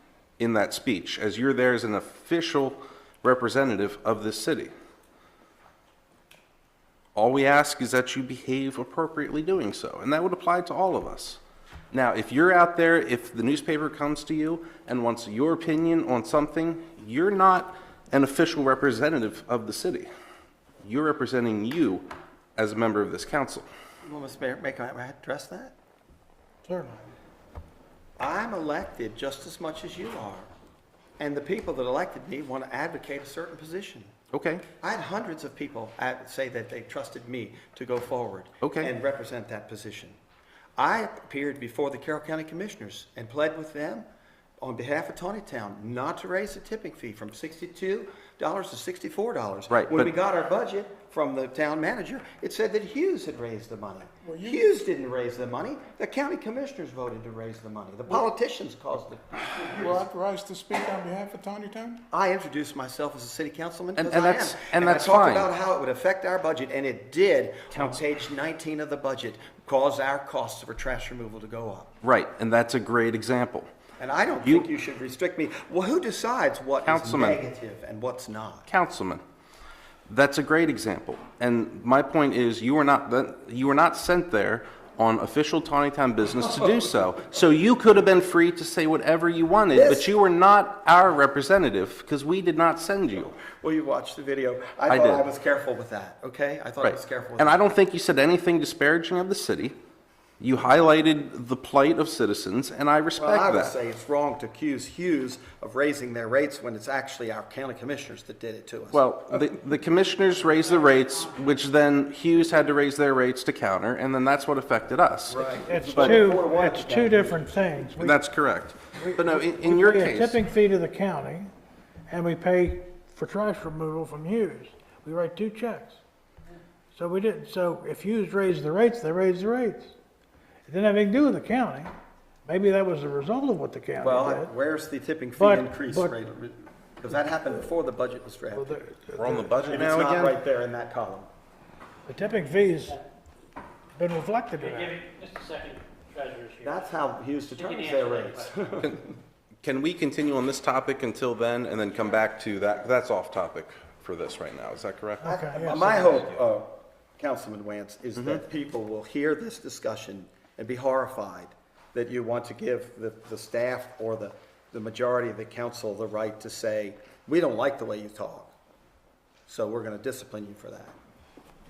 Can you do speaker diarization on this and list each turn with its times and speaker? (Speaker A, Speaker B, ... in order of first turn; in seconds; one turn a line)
Speaker A: 0.4-4.7
Speaker A: 7.1-11.4
Speaker A: 11.9-20.1
Speaker A: 20.8-23.7
Speaker B: 24.0-25.7
Speaker C: 26.6-27.1
Speaker B: 28.2-30.5
Speaker B: 31.2-34.1
Speaker A: 34.3-34.6
Speaker B: 34.8-40.2
Speaker A: 38.6-38.9
Speaker B: 40.8-44.0
Speaker B: 44.6-60.0
Speaker A: 49.7-50.1
Speaker D: 54.2-54.7
Speaker D: 59.5-62.0
Speaker B: 62.1-71.9
Speaker A: 64.0-65.5
Speaker A: 72.0-73.7
Speaker B: 74.0-78.7
Speaker A: 76.8-77.4
Speaker A: 78.7-79.2
Speaker A: 80.1-93.3
Speaker B: 89.7-90.1
Speaker B: 93.5-97.6
Speaker A: 94.9-95.2
Speaker A: 96.8-99.8
Speaker A: 100.4-103.7
Speaker B: 103.1-109.0
Speaker A: 108.9-116.2
Speaker B: 115.3-117.8
Speaker C: 115.7-118.2
Speaker A: 118.0-120.4
Speaker C: 119.0-121.5
Speaker C: 122.1-126.0
Speaker C: 126.9-129.9
Speaker C: 130.7-131.9
Speaker C: 132.4-134.5
Speaker B: 134.0-138.8
Speaker C: 135.3-136.2
Speaker C: 138.5-140.2
Speaker A: 139.2-140.4
Speaker B: 139.7-141.3
Speaker C: 142.1-143.0
Speaker C: 143.9-145.0
Speaker E: 144.6-146.8
Speaker B: 146.6-149.1
Speaker E: 147.6-148.5
Speaker A: 149.6-155.3
Speaker C: 155.2-156.2
Speaker B: 155.2-168.5
Speaker A: 158.2-158.4
Speaker B: 169.5-170.9